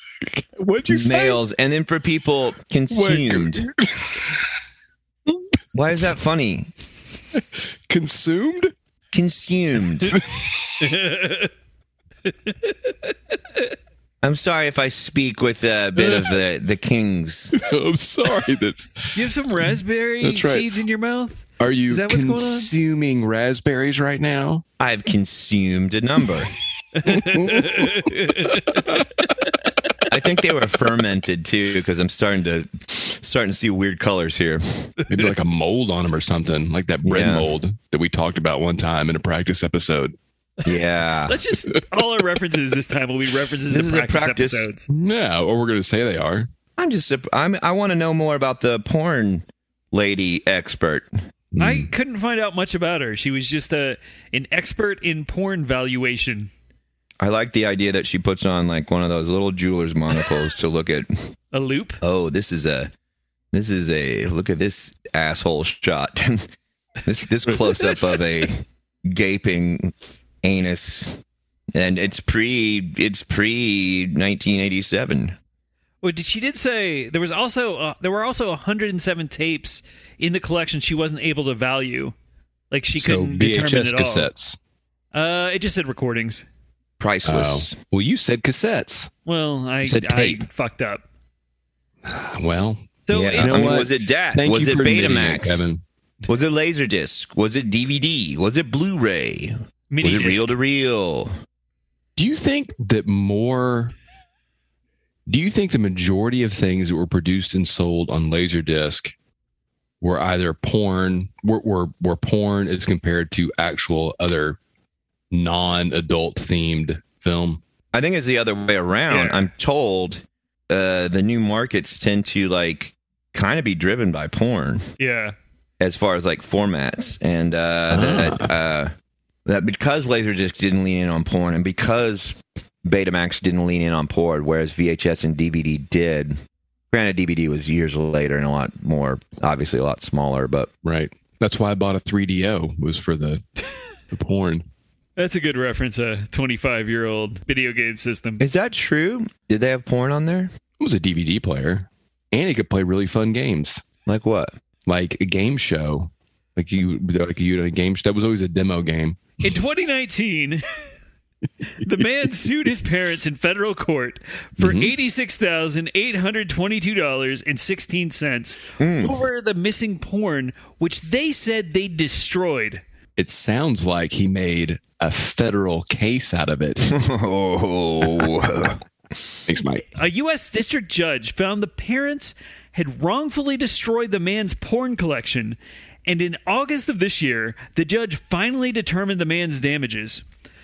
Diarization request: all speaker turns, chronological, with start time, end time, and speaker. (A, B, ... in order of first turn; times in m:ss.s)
0:00.2-0:01.4 A
0:00.9-0:03.7 B
0:02.9-0:04.4 A
0:05.7-0:06.7 B
0:07.3-0:08.7 A
0:09.1-0:10.2 B
0:10.1-0:10.9 A
0:10.8-0:11.5 C
0:12.3-0:13.6 C
0:14.2-0:17.6 B
0:16.0-0:16.4 A
0:17.5-0:19.1 A
0:19.1-0:22.7 C
0:20.2-0:20.7 A
0:21.6-0:24.6 A
0:24.8-0:26.5 B
0:27.0-0:29.5 C
0:27.1-0:27.9 A
0:30.1-0:34.9 B
0:35.1-0:40.1 A
0:37.1-0:37.5 B
0:40.6-0:41.4 B
0:41.3-0:44.9 C
0:41.7-0:42.1 A
0:43.7-0:44.7 B
0:44.9-0:46.5 A
0:46.8-0:51.1 B
0:51.5-0:51.9 A
0:51.6-0:56.5 C
0:57.2-1:01.1 B
1:01.5-1:02.0 C
1:02.0-1:02.9 B
1:03.5-1:06.5 B
1:07.0-1:11.1 B
1:11.7-1:15.4 B
1:16.0-1:22.2 C
1:22.7-1:24.3 C
1:23.0-1:24.6 A
1:25.1-1:26.4 C
1:27.0-1:27.8 B
1:27.2-1:29.1 A
1:29.3-1:31.0 C
1:29.8-1:30.5 A
1:32.0-1:35.8 A
1:33.1-1:33.8 C
1:33.1-1:35.6 B
1:36.3-1:41.3 B
1:39.9-1:40.5 C
1:42.2-1:43.9 A
1:45.3-1:49.1 A
1:50.0-1:54.6 A
1:55.3-1:57.6 A
1:57.9-2:04.8 B
1:59.1-1:59.5 C
2:05.0-2:05.4 C
2:05.8-2:08.9 B
2:07.9-2:08.5 A
2:09.5-2:16.4 B
2:16.9-2:20.7 B
2:20.8-2:23.4 A
2:24.1-2:24.7 A
2:25.2-2:28.4 C
2:28.4-2:30.5 B
2:30.8-2:33.8 A
2:34.1-2:34.5 B
2:34.9-2:39.2 A
2:39.4-2:40.6 C
2:41.7-2:52.8 C
2:44.6-2:44.9 A
2:48.8-2:49.2 B
2:53.2-2:56.9 A
2:56.8-2:58.8 B
2:59.5-2:59.8 A
3:00.0-3:10.2 C